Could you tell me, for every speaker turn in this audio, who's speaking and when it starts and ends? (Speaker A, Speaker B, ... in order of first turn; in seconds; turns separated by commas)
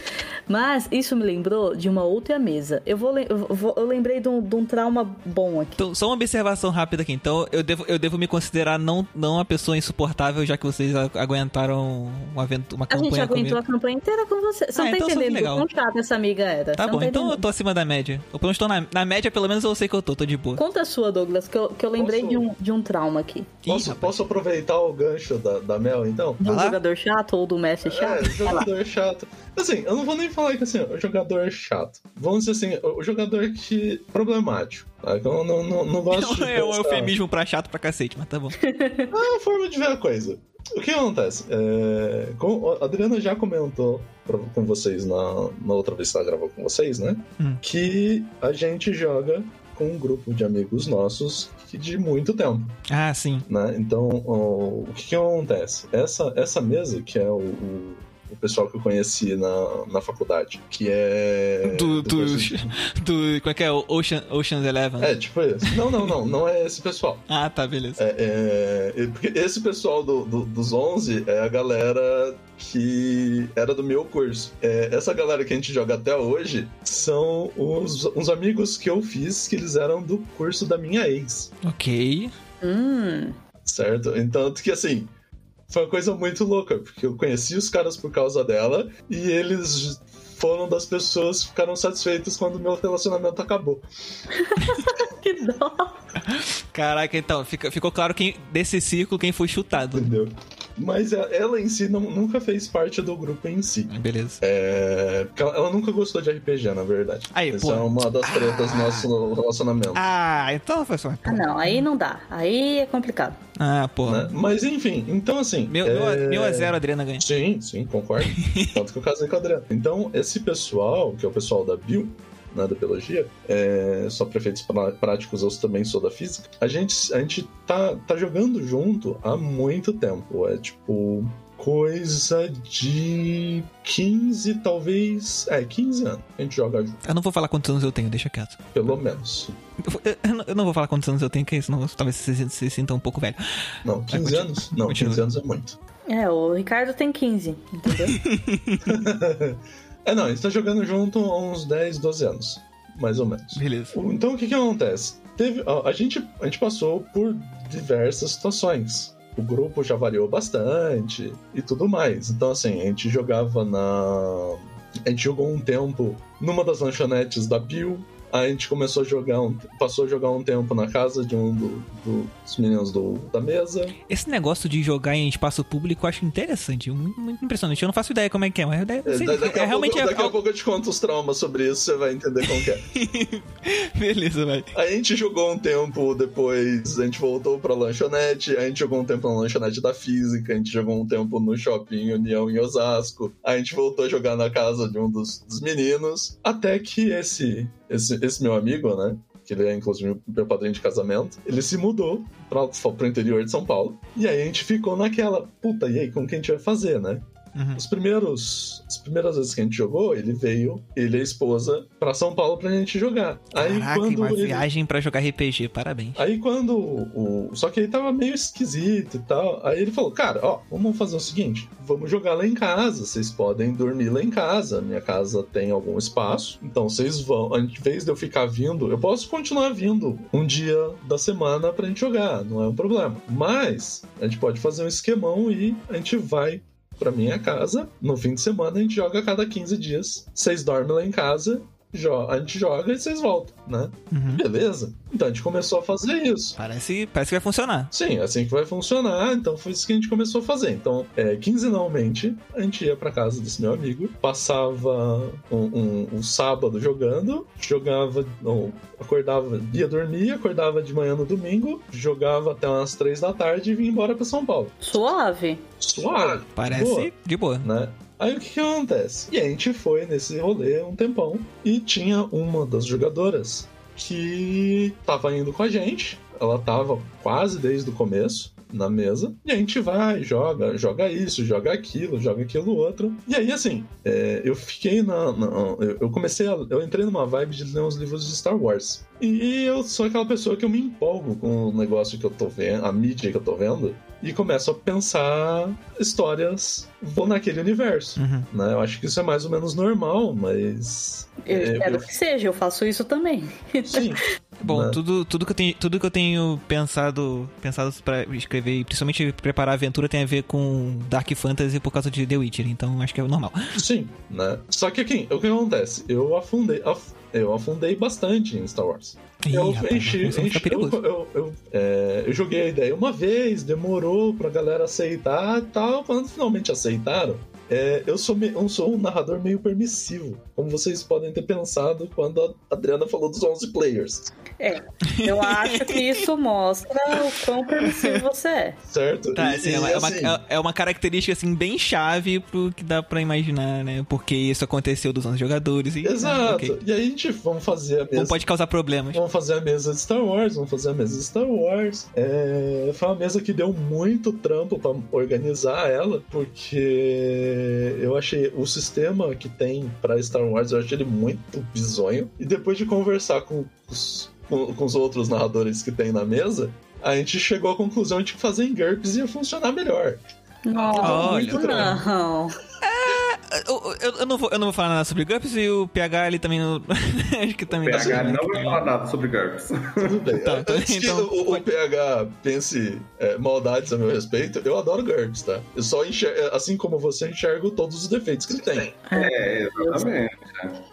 Speaker A: 0.5-5.8, Speaker B: 5.8-13.6, Speaker A: 12.9-17.4, Speaker B: 14.7-15.7, Speaker B: 16.8-20.6, Speaker A: 20.6-23.5, Speaker C: 22.0-22.4, Speaker B: 23.6-24.1, Speaker C: 23.7-26.4, Speaker A: 26.4-28.7, Speaker B: 26.4-26.8, Speaker C: 27.8-37.1, Speaker B: 36.1-38.6, Speaker A: 38.6-39.1, Speaker C: 39.1-52.7, Speaker B: 52.9-53.4, Speaker C: 53.5-62.7, Speaker B: 61.6-65.1, Speaker C: 65.0-67.2, Speaker B: 65.7-66.1, Speaker B: 67.3-68.0, Speaker C: 68.0-81.5, Speaker B: 81.6-82.3, Speaker A: 82.6-83.3, Speaker C: 83.7-85.1, Speaker C: 85.7-93.8, Speaker A: 94.3-95.9, Speaker B: 96.2-100.1, Speaker C: 99.8-110.0, Speaker B: 103.9-104.4, Speaker B: 107.3-109.1, Speaker B: 109.9-111.8, Speaker A: 111.2-113.4, Speaker B: 113.6-114.3, Speaker C: 114.0-137.0, Speaker B: 115.7-117.2, Speaker B: 118.3-118.7, Speaker B: 137.0-139.0, Speaker C: 138.7-139.5, Speaker B: 139.8-143.4, Speaker C: 143.8-145.8, Speaker B: 144.1-145.2, Speaker A: 146.1-148.2, Speaker B: 148.1-149.0, Speaker C: 148.8-173.9, Speaker B: 153.6-153.9, Speaker B: 174.1-180.3, Speaker C: 179.0-182.8, Speaker B: 182.6-184.7, Speaker C: 184.7-214.7, Speaker B: 207.5-207.8, Speaker B: 213.5-216.2, Speaker C: 216.2-246.6, Speaker B: 244.1-244.4, Speaker B: 246.6-247.9, Speaker C: 247.9-264.8, Speaker A: 264.8-265.6, Speaker C: 265.8-302.1, Speaker B: 266.6-267.7, Speaker B: 298.2-298.5, Speaker A: 301.4-304.1, Speaker C: 303.9-305.0, Speaker B: 304.6-313.7, Speaker C: 313.8-334.3, Speaker B: 319.4-321.0, Speaker A: 334.6-338.8, Speaker B: 335.1-336.2, Speaker B: 337.8-338.2, Speaker C: 338.9-340.4, Speaker B: 339.3-346.8, Speaker C: 346.0-348.4, Speaker B: 348.1-349.2, Speaker C: 349.1-370.2, Speaker A: 370.6-372.6, Speaker C: 370.8-372.0, Speaker B: 371.0-372.0, Speaker B: 372.8-378.9, Speaker D: 377.7-380.2, Speaker C: 377.9-378.3, Speaker C: 380.0-388.9, Speaker B: 380.4-381.6, Speaker A: 389.1-390.1, Speaker D: 389.1-390.8